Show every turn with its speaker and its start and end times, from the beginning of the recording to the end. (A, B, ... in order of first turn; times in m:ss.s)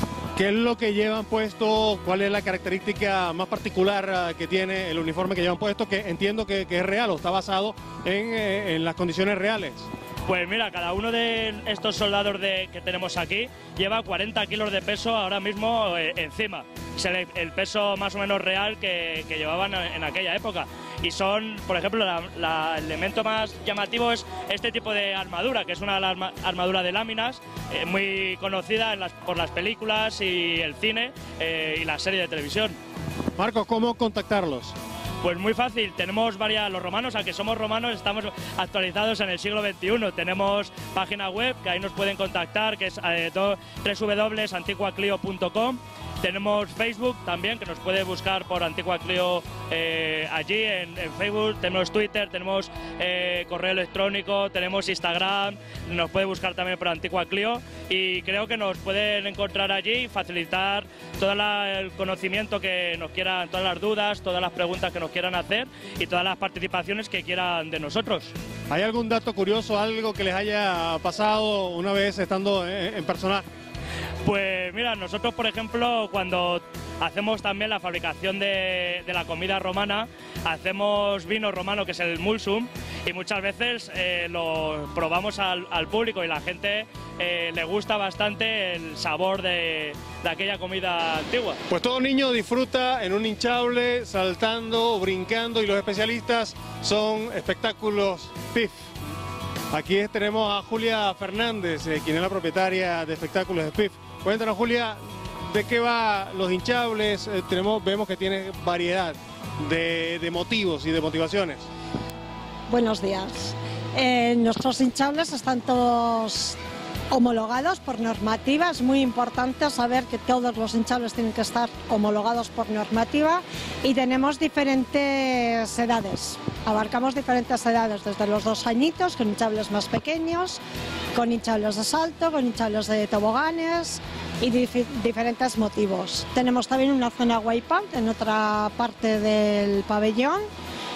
0:00.4-0:09.9 A
0:10.3-0:32.8 B
0:33.4-0:34.8 A
0:35.2-1:08.3 B
1:08.7-1:13.5 A
1:14.2-1:31.6 B
1:31.7-1:38.9 A
1:39.7-1:51.7 A
1:52.7-1:56.6 C
1:57.1-2:10.6 C
2:11.1-2:20.5 C